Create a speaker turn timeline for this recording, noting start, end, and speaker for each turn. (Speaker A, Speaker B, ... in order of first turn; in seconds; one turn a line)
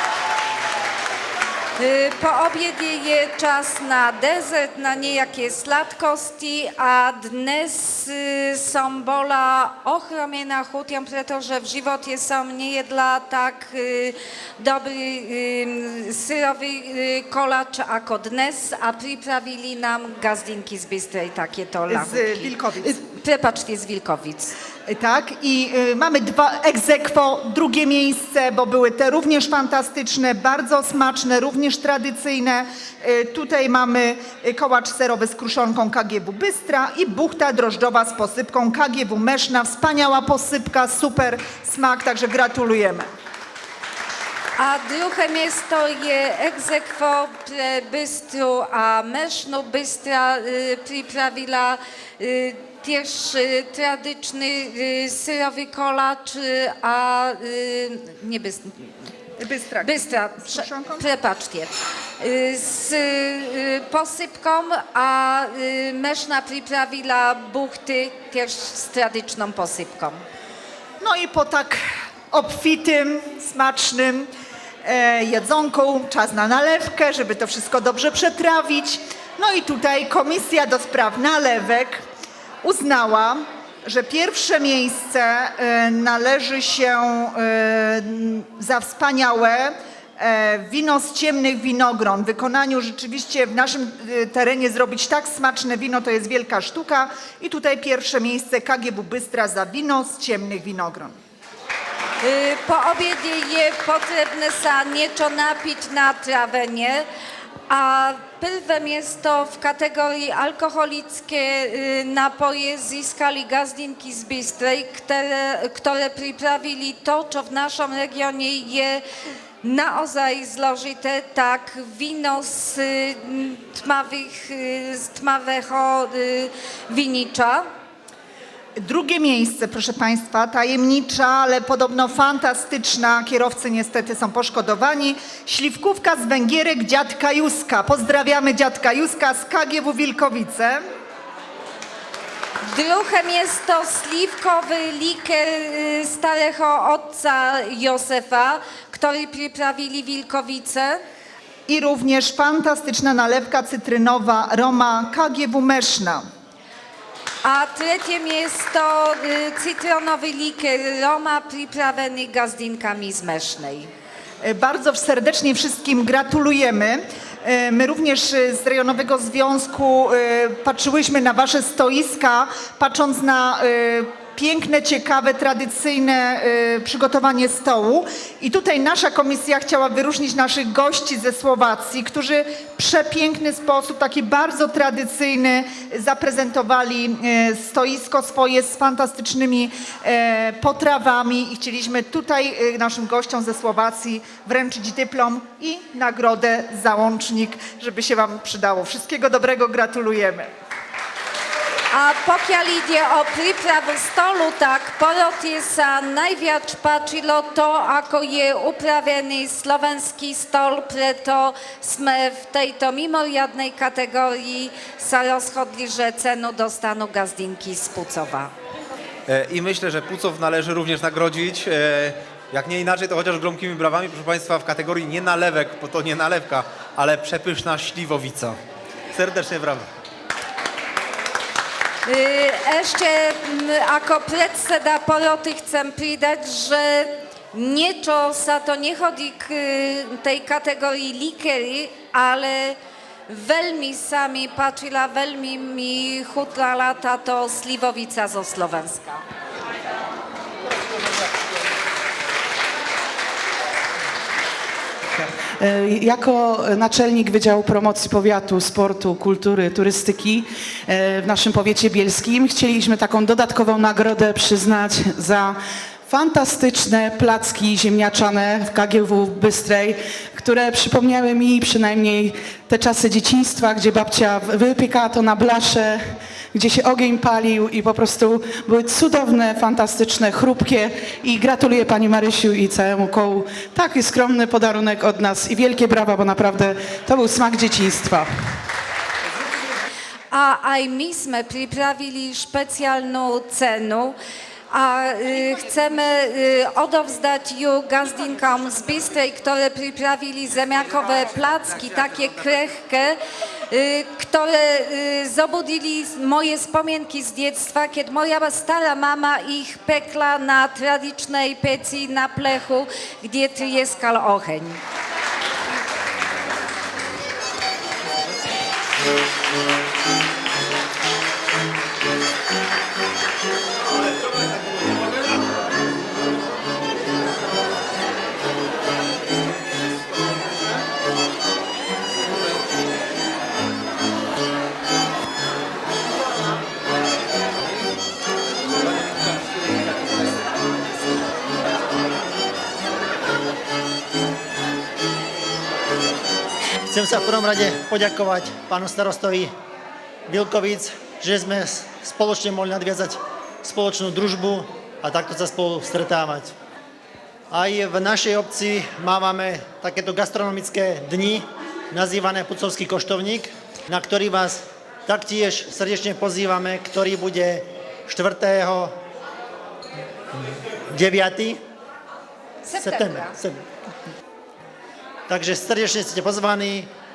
Speaker A: 1.8-24.5
Speaker B: 21.9-23.0
Speaker B: 24.9-43.1
Speaker A: 44.6-59.1
Speaker B: 59.4-61.0
Speaker A: 59.8-70.2
Speaker B: 71.0-74.3
Speaker B: 74.8-82.0
Speaker B: 82.6-101.2
Speaker A: 102.2-107.1
Speaker A: 107.7-119.0
Speaker A: 119.6-127.6
Speaker B: 128.8-140.8
Speaker A: 142.7-151.0
Speaker B: 151.7-156.2
Speaker A: 157.4-163.9
Speaker B: 164.4-200.5
Speaker A: 201.9-218.5
Speaker C: 219.3-228.6
Speaker C: 229.1-229.9
Speaker A: 232.1-242.8
Speaker A: 243.3-249.2
Speaker D: 255.1-288.3
Speaker A: 290.3-294.2
Speaker A: 294.7-303.2
Speaker A: 303.7-314.8
Speaker E: 346.9-349.5
Speaker E: 350.3-356.5
Speaker E: 357.5-368.9
Speaker E: 370.9-371.6
Speaker A: 372.6-373.4
Speaker E: 372.8-373.6
Speaker E: 375.3-376.9